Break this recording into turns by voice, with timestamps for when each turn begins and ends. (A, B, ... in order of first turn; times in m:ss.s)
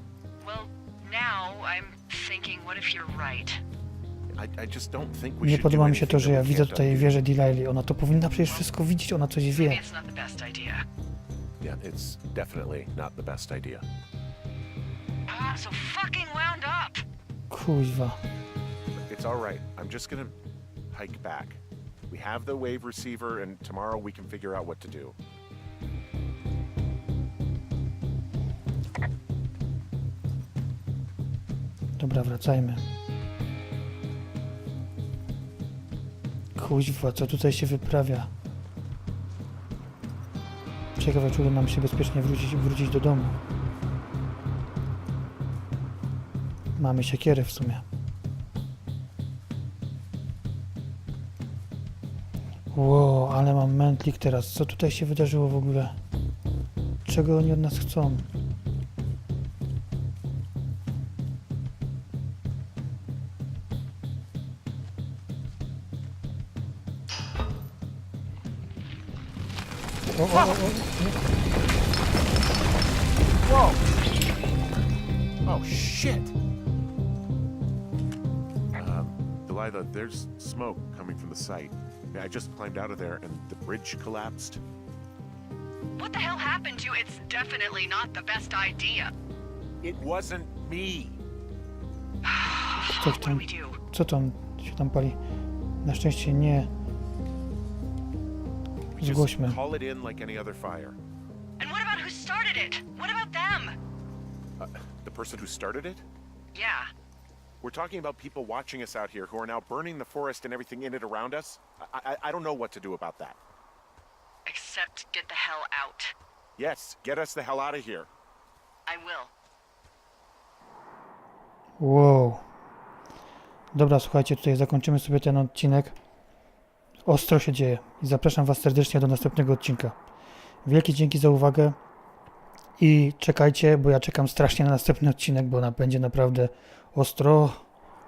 0:00.4-0:03.6 A
0:04.3-0:07.2 B
0:05.4-0:09.8 C
0:09.5-0:10.8 A
0:11.6-0:13.8 B
0:15.3-0:17.0 A
0:17.5-0:18.2 C
0:19.0-0:20.3 B
0:20.9-0:25.2 B
0:32.0-0:32.8 C
0:36.6-0:38.3 C
0:41.0-0:43.4 C
0:46.8-0:47.8 C
0:52.7-0:56.0 C
0:57.0-0:58.3 C
1:10.1-1:11.2 C
1:10.3-1:10.6 B
1:13.4-1:13.9 B
1:15.4-1:16.3 B
1:18.7-1:24.6 B
1:26.0-1:29.1 A
1:29.8-1:31.2 B
1:32.2-1:33.8 A
1:32.8-1:35.2 C
1:35.8-1:36.7 C
1:38.9-1:41.0 B
1:39.0-1:39.6 C
1:41.6-1:43.8 A
1:44.6-1:46.0 B
1:46.5-1:46.9 A
1:47.6-1:53.4 B
1:54.4-1:56.1 A
1:56.6-1:58.1 B
1:58.9-1:59.3 A
2:01.8-2:02.4 C
2:03.7-2:06.0 C
2:07.0-2:10.0 C
2:10.6-2:11.8 C
2:12.8-2:17.7 C